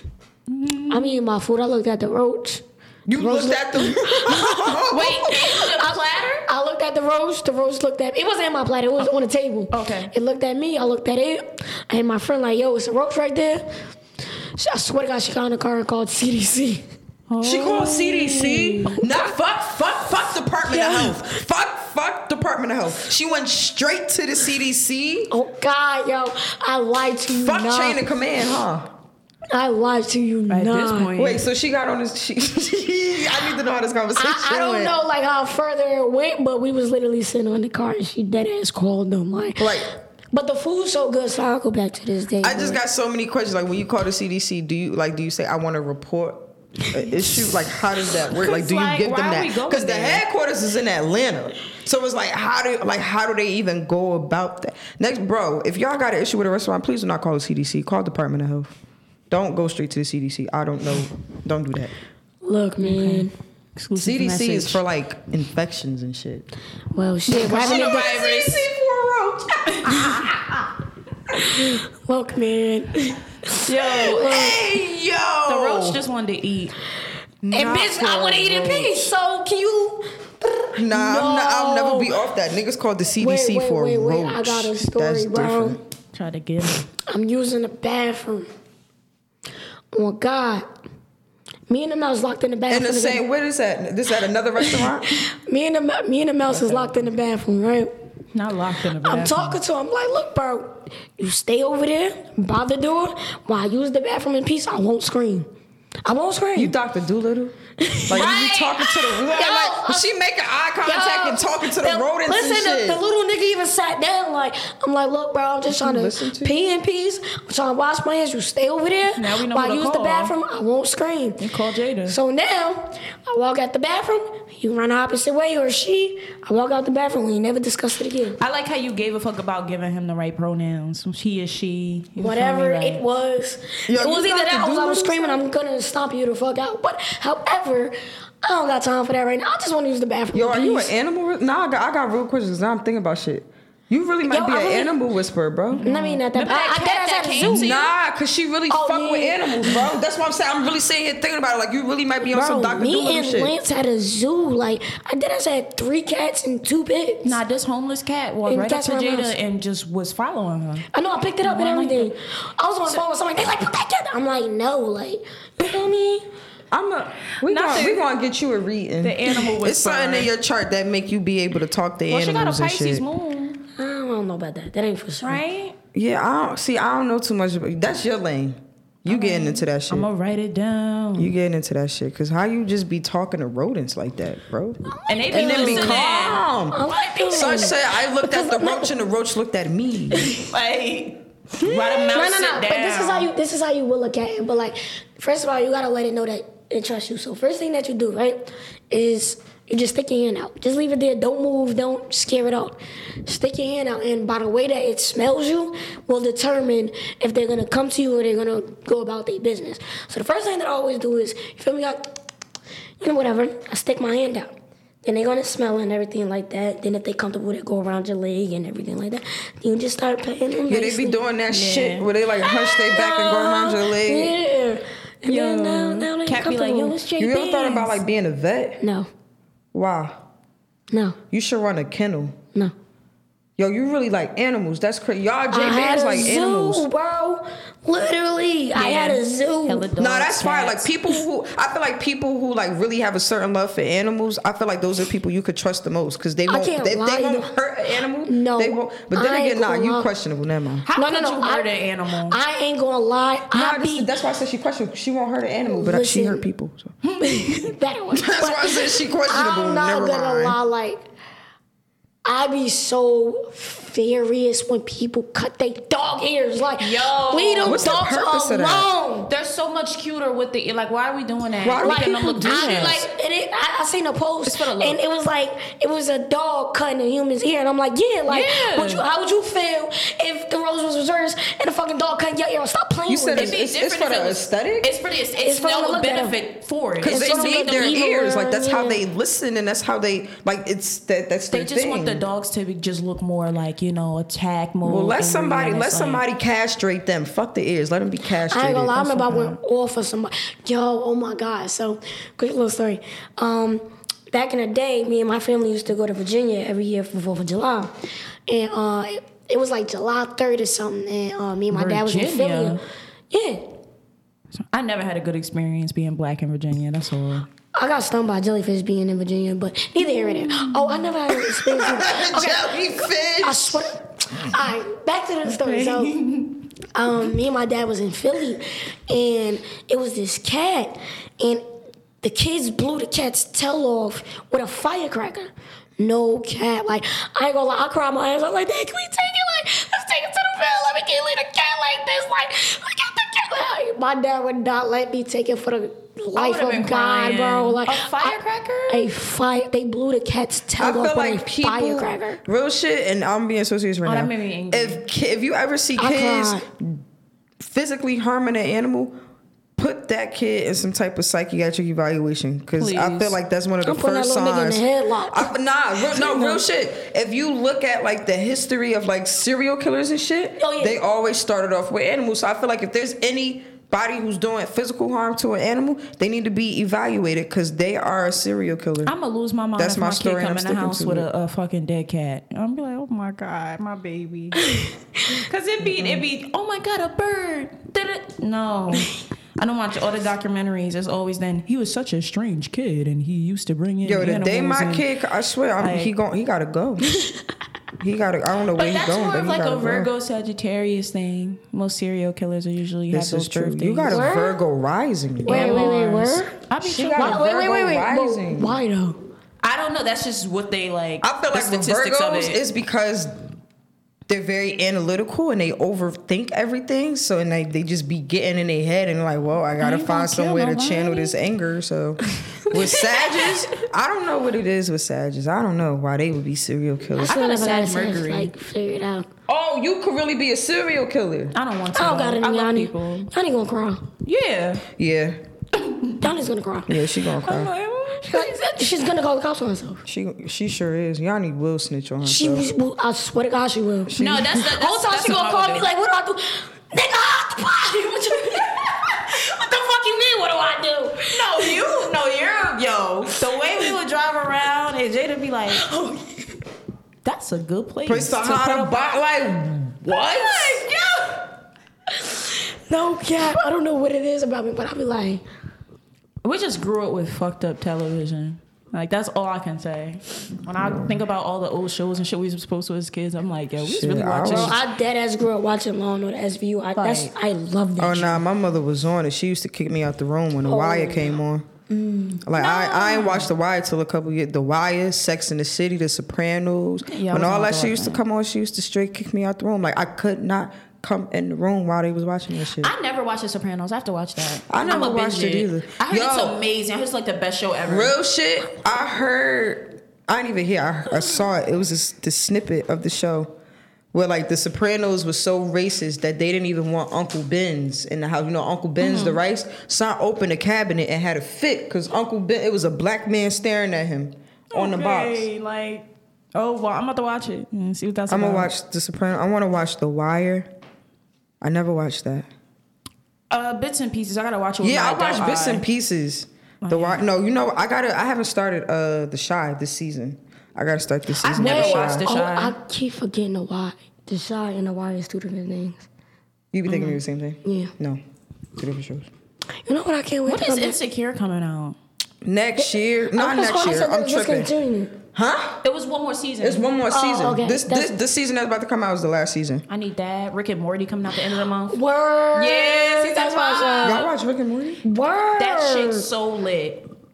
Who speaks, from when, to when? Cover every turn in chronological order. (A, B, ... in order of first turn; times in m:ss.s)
0:00.5-0:01.2 A
0:00.9-0:02.6 B
0:03.1-0:05.5 C
0:03.1-0:04.4 B
0:04.7-0:06.5 A
0:05.8-0:13.7 B
0:09.7-0:10.1 A
0:14.6-0:16.8 B
0:17.3-0:19.0 A
0:17.4-0:25.3 C
0:20.7-0:21.4 B
0:25.3-0:28.0 B
0:27.4-0:28.9 C
0:29.5-0:31.1 B
0:30.5-0:31.4 A
0:31.2-0:34.9 C
0:34.2-0:42.8 B
0:39.6-0:39.9 C
0:42.4-0:58.7 C
0:48.4-0:50.2 A
0:59.3-1:01.9 C
1:02.4-1:03.3 B
1:02.8-1:04.8 A
1:04.0-1:06.5 C
1:06.9-1:08.2 B
1:07.3-1:08.6 A
1:07.4-1:10.6 C
1:09.7-1:10.2 A
1:11.3-1:14.6 B
1:13.6-1:14.4 A
1:14.1-1:16.0 C
1:15.5-1:16.7 A
1:17.4-1:19.1 C
1:17.5-1:22.2 B
1:20.7-1:25.8 C
1:23.2-1:25.8 B
1:26.1-1:26.8 A
1:27.0-1:28.5 B
1:29.9-1:30.6 B
1:31.7-1:33.2 B
1:32.7-1:35.2 C
1:34.6-1:37.9 B
1:36.5-1:37.1 C
1:38.3-1:39.5 A
1:39.0-1:45.5 B
1:46.0-1:46.7 B
1:46.5-1:47.5 C
1:47.8-1:50.1 B
1:48.1-1:53.0 C
1:48.1-1:48.8 A
1:50.8-2:01.4 B
1:55.7-1:56.5 C
1:59.2-2:00.3 A
2:01.4-2:02.2 A
2:02.0-2:08.4 B
2:08.4-2:13.0 A
2:12.2-2:20.9 B
2:13.9-2:15.4 C
2:20.3-2:25.8 C
2:24.2-2:24.9 B
2:25.7-2:27.9 A
2:25.8-2:27.8 B
2:27.4-2:33.5 C
2:28.7-2:29.7 B
2:32.3-2:37.4 B
2:37.2-2:40.8 A
2:38.5-2:39.3 B
2:40.9-2:46.2 B
2:41.4-2:42.1 A
2:46.7-2:53.0 C
2:47.4-2:48.0 A
2:49.0-2:50.3 A
2:52.1-2:53.6 A
2:53.8-2:55.4 B
2:55.2-2:55.8 A
2:55.9-3:00.1 C
2:59.1-3:01.3 A
3:01.2-3:10.3 C
3:05.0-3:08.9 B
3:05.1-3:06.4 A
3:10.1-3:10.4 B
3:10.4-3:13.3 A
3:11.6-3:32.0 B
3:33.0-3:41.2 B
3:40.7-3:44.3 C
3:41.5-3:42.1 A
3:42.4-3:47.0 B
3:45.3-3:48.0 A
3:47.2-3:48.8 C
3:48.8-3:49.1 B
3:49.7-3:50.2 C
3:50.9-3:51.2 B
3:51.3-3:52.4 C
3:53.6-3:56.8 C
3:55.5-3:59.9 B
3:58.8-4:00.9 A
4:00.0-4:10.8 C
4:06.5-4:07.5 B
4:08.2-4:10.1 B
4:10.8-4:12.4 A
4:11.0-4:11.7 B
4:12.3-4:14.1 B
4:13.5-4:16.9 C
4:15.7-4:16.4 B
4:17.1-4:17.5 A
4:17.2-4:21.0 B
4:18.1-4:20.6 C
4:22.2-4:29.3 B
4:26.8-4:28.1 A
4:27.6-4:28.9 C
4:29.3-4:33.0 A
4:31.6-4:33.0 C
4:31.8-4:43.5 B
4:34.4-4:35.0 A
4:38.3-4:39.0 A
4:43.1-4:44.9 C
4:43.3-4:48.0 A
4:45.4-4:46.4 B
4:47.0-4:52.2 C
4:47.0-4:49.0 B
4:51.5-4:56.2 A
4:54.8-4:59.1 C
4:58.5-5:07.9 B
4:59.0-4:59.6 A
5:08.5-5:12.8 B
5:11.7-5:12.8 A
5:13.3-5:13.7 B
5:14.7-5:17.5 A
5:17.7-5:22.8 B
5:20.2-5:21.0 A
5:21.4-5:23.9 C
5:23.4-5:26.1 B
5:25.5-5:26.6 A
5:26.9-5:31.6 B
5:32.2-5:52.4 B
5:46.3-5:49.1 A
5:50.8-5:57.0 C
5:54.0-5:55.0 A
5:56.0-5:56.6 B
5:57.6-5:59.2 C
5:59.8-6:19.1 C
6:02.8-6:03.4 A
6:03.8-6:05.5 B
6:06.1-6:06.6 B
6:10.6-6:11.0 B
6:19.0-6:24.6 A
6:19.8-6:21.3 C
6:25.3-6:35.0 A
6:25.8-6:26.2 C
6:34.0-6:37.2 C
6:35.8-6:36.1 A
6:38.0-6:40.1 C
6:38.8-6:44.2 A
6:43.1-6:45.9 C
6:44.0-6:44.6 B
6:45.4-6:46.5 B
6:45.4-6:47.5 A
6:46.8-6:48.8 C
6:47.2-6:49.2 B
6:49.6-6:52.6 A
6:51.2-6:53.4 C
6:54.3-7:07.4 C
6:59.8-7:01.4 A
7:02.7-7:03.7 A
7:07.2-7:09.3 B
7:07.2-7:08.5 A
7:09.5-7:11.5 C
7:11.5-7:13.3 A
7:11.9-7:14.0 B
7:14.2-7:14.8 A
7:15.0-7:15.4 C
7:15.8-7:16.2 A
7:16.2-7:17.0 B
7:16.9-7:17.7 C
7:17.4-7:18.5 A
7:18.2-7:20.0 B
7:20.0-7:22.7 C
7:22.2-7:32.0 B
7:24.1-7:24.6 C
7:24.2-7:25.9 A
7:31.3-7:35.9 A
7:35.7-7:36.3 B
7:37.2-7:39.2 A
7:38.0-7:40.9 C
7:40.2-7:41.4 A
7:42.2-7:45.4 B
7:46.4-7:54.8 A
7:50.8-7:51.2 C
7:53.8-7:54.8 C
7:54.4-7:58.4 B
7:57.0-7:57.3 A
7:58.0-8:01.7 C
8:00.6-8:01.4 B
8:01.9-8:02.4 B
8:02.4-8:12.9 C
8:02.5-8:03.5 A
8:07.1-8:08.2 A
8:12.8-8:18.1 A
8:14.7-8:16.6 C
8:17.8-8:23.5 C
8:24.1-8:35.5 C
8:29.0-8:29.4 A
8:34.7-8:38.7 A
8:38.3-8:40.7 C
8:41.6-8:42.5 C
8:43.5-8:45.8 A
8:44.8-8:52.3 C
8:46.8-8:47.2 A
8:51.4-8:52.7 A
8:51.5-8:56.0 B
8:56.7-8:58.2 C
8:56.9-8:57.2 A
8:57.6-8:57.9 B
8:58.8-8:59.3 C
8:59.8-9:00.9 B
9:00.4-9:02.0 A
9:02.4-9:04.7 C
9:02.8-9:05.1 B
9:05.3-9:05.8 C
9:05.8-9:06.8 A
9:06.6-9:09.8 C
9:07.1-9:08.1 B
9:09.9-9:12.0 A
9:11.9-9:14.2 B
9:12.5-9:14.3 A
9:14.0-9:15.0 C
9:15.0-9:16.3 B
9:15.6-9:17.0 A